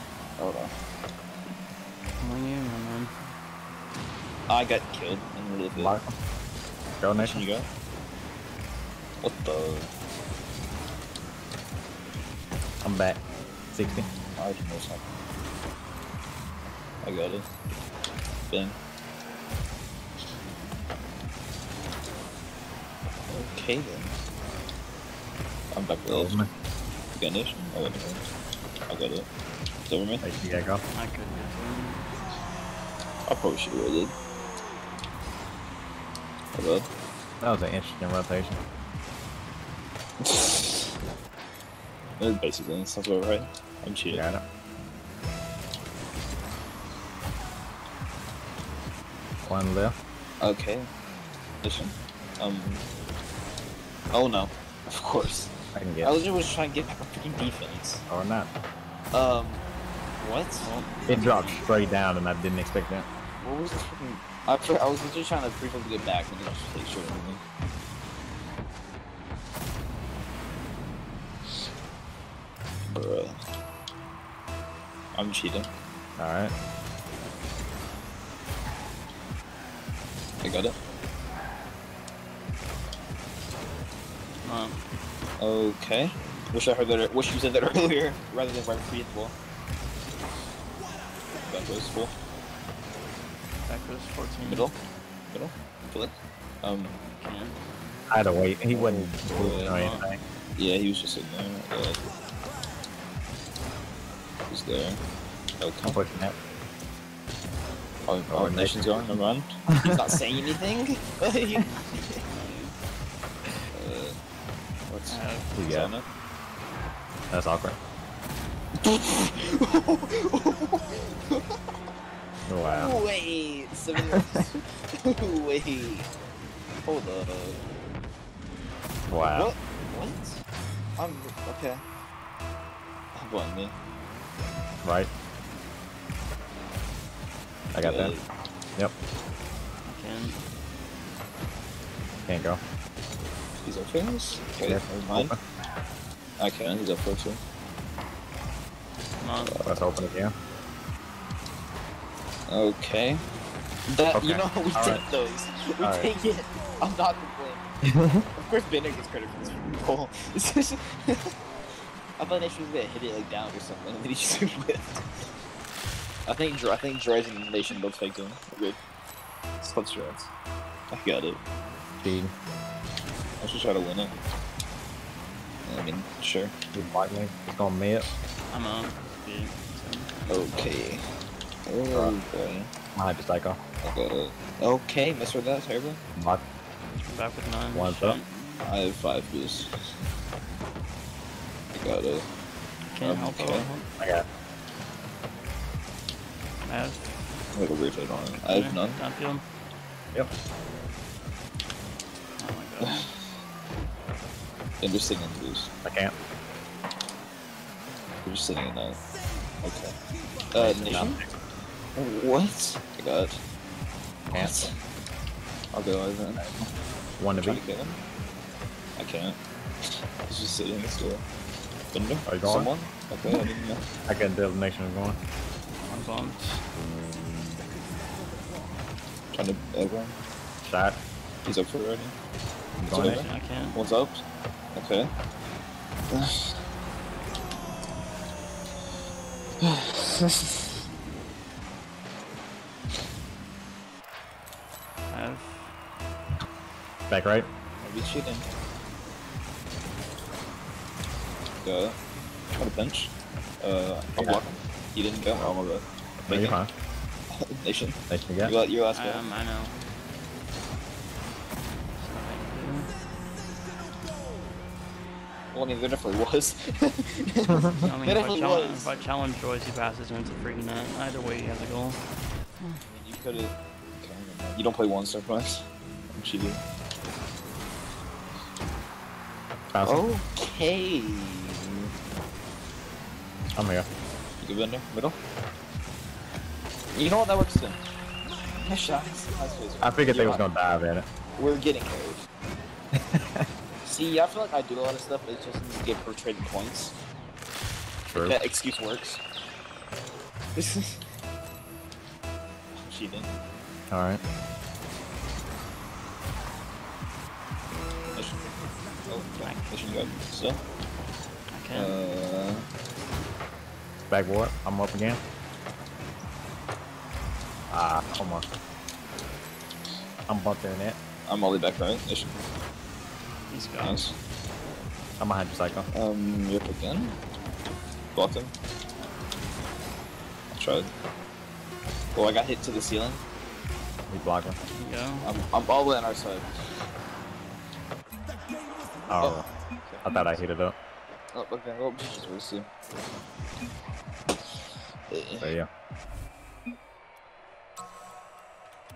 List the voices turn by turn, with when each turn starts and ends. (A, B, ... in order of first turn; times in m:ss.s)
0:00.4-0:00.7 A
0:02.2-0:03.3 B
0:04.5-0:05.9 A
0:05.8-0:06.1 C
0:07.0-0:07.4 C
0:07.2-0:07.7 A
0:09.2-0:09.9 A
0:12.8-0:14.1 C
0:14.4-0:15.0 A
0:17.0-0:17.5 A
0:18.5-0:18.8 A
0:23.3-0:24.1 A
0:25.7-0:26.4 A
0:26.1-0:26.5 C
0:27.2-0:28.2 A
0:28.9-0:29.3 A
0:29.9-0:30.2 A
0:30.2-0:30.8 C
0:30.9-0:32.1 B
0:33.3-0:34.1 A
0:36.5-0:36.9 A
0:37.4-0:38.6 C
0:40.2-0:40.9 A
0:42.2-0:44.2 A
0:44.1-0:44.4 C
0:49.5-0:50.0 C
0:50.4-0:50.9 A
0:51.6-0:52.8 A
0:54.1-0:58.0 A
0:55.7-0:56.1 C
0:58.1-0:58.5 C
0:59.1-0:59.6 A
1:00.2-1:00.7 A
1:00.6-1:01.6 B
1:01.1-1:03.1 C
1:03.4-1:07.4 A
1:12.9-1:13.4 A
1:15.2-1:15.7 A
1:16.2-1:16.5 C
1:20.4-1:20.8 A
1:24.4-1:24.8 B
1:25.4-1:29.4 A
1:31.4-1:32.1 A
1:33.7-1:34.7 B
1:34.5-1:34.8 A
1:35.3-1:36.9 A
1:37.2-1:37.6 B
1:38.1-1:40.2 C
1:38.7-1:39.8 A
1:39.6-1:40.1 B
1:40.6-1:42.0 A
1:44.5-1:45.0 A
1:45.6-1:46.0 A
1:45.8-1:46.4 C
1:48.1-1:52.2 A
1:48.3-1:49.0 C
1:49.7-1:50.0 C
1:51.7-1:52.7 B
1:53.7-1:54.2 A
1:54.9-1:56.1 A
1:55.1-1:55.5 B
1:55.6-1:55.9 C
1:57.3-1:57.8 C
1:58.8-2:01.6 A
2:02.5-2:02.9 C
2:02.7-2:06.1 A
2:06.8-2:07.6 A
2:09.1-2:09.5 C
2:09.2-2:10.4 A
2:11.0-2:11.8 A
2:13.2-2:13.8 A
2:14.8-2:15.1 C
2:17.7-2:18.1 C
2:17.8-2:18.3 A
2:19.8-2:20.4 B
2:22.3-2:22.6 C
2:23.6-2:25.3 A
2:24.6-2:25.4 C
2:26.4-2:27.4 A
2:29.2-2:29.6 B
2:29.5-2:30.3 C
2:32.5-2:33.2 A
2:33.9-2:37.7 A
2:34.1-2:35.0 C
2:35.8-2:36.1 C
2:37.9-2:38.2 C
2:38.4-2:41.3 A
2:42.2-2:45.1 A
2:46.3-2:48.8 A
2:49.6-2:50.3 A
2:50.9-2:51.4 A
2:52.0-2:52.3 C
2:53.4-2:54.1 A
2:55.7-2:56.5 A
2:56.7-2:58.1 C
2:58.5-3:00.7 B
3:00.3-3:01.1 A
3:01.7-3:02.7 A
3:01.9-3:02.2 C
3:03.0-3:03.6 C
3:03.8-3:06.0 A
3:06.2-3:06.4 C
3:07.0-3:08.4 B
3:07.7-3:08.2 C
3:08.6-3:10.0 A
3:11.7-3:12.3 A
3:12.9-3:13.9 B
3:13.0-3:13.7 A
3:14.0-3:14.2 C
3:16.6-3:17.1 B
3:17.5-3:19.0 A
3:18.4-3:19.4 B
3:22.4-3:23.1 B
3:22.8-3:23.1 A
3:24.8-3:25.7 A
3:25.8-3:26.2 C
3:28.2-3:29.0 A
3:29.6-3:30.0 A
3:30.5-3:31.2 A
3:30.6-3:31.3 C
3:32.0-3:33.4 A
3:34.3-3:34.8 A
3:35.7-3:36.6 A
3:37.2-3:37.6 C
3:37.4-3:38.0 A
3:39.0-3:39.4 A
3:40.3-3:41.2 A
3:41.9-3:43.9 A
3:42.3-3:42.7 C
3:44.1-3:45.2 C
3:45.9-3:46.6 B
3:49.3-3:50.2 A
3:50.7-3:51.0 C
3:51.4-3:52.1 A
3:52.8-3:53.3 C
3:52.9-3:55.1 A
3:52.9-3:53.8 B
3:56.1-3:56.6 A
3:59.6-4:00.7 A
4:05.1-4:05.7 B
4:07.1-4:07.5 C
4:07.8-4:08.5 A
4:11.6-4:12.0 A
4:12.6-4:16.6 A
4:14.2-4:14.4 C
4:16.3-4:16.7 C
4:17.3-4:19.2 A
4:18.1-4:18.5 C
4:18.9-4:19.8 B
4:22.0-4:22.9 B
4:25.5-4:29.0 A
4:27.8-4:32.0 B
4:32.9-4:36.6 A
4:39.7-4:40.1 C
4:39.8-4:41.9 A
4:43.6-4:43.9 C
4:44.4-4:45.2 A
4:46.9-4:47.8 A
4:48.6-4:50.4 A
4:49.8-4:51.1 C
4:51.4-4:52.2 A
4:53.0-4:53.5 C
4:53.8-4:57.0 A
4:58.1-4:58.4 C
4:58.2-4:59.2 A
5:00.6-5:01.0 A
5:02.8-5:03.3 A
5:03.9-5:04.2 C
5:09.1-5:10.6 A
5:09.4-5:10.2 B
5:11.5-5:12.0 B
5:11.7-5:12.7 A
5:14.1-5:15.2 C
5:17.7-5:18.5 C
5:20.3-5:21.0 C
5:21.3-5:22.4 A
5:23.5-5:24.1 B
5:23.8-5:24.1 A
5:25.2-5:25.9 C
5:25.9-5:27.2 A
5:28.1-5:28.5 A
5:30.6-5:30.9 A
5:32.2-5:33.2 A
5:34.1-5:34.6 C
5:34.6-5:35.3 B
5:35.2-5:36.6 A
5:39.1-5:39.5 C
5:39.2-5:40.4 A
5:40.0-5:40.8 C
5:41.3-5:42.7 A
5:45.1-5:45.6 A
5:45.4-5:45.7 C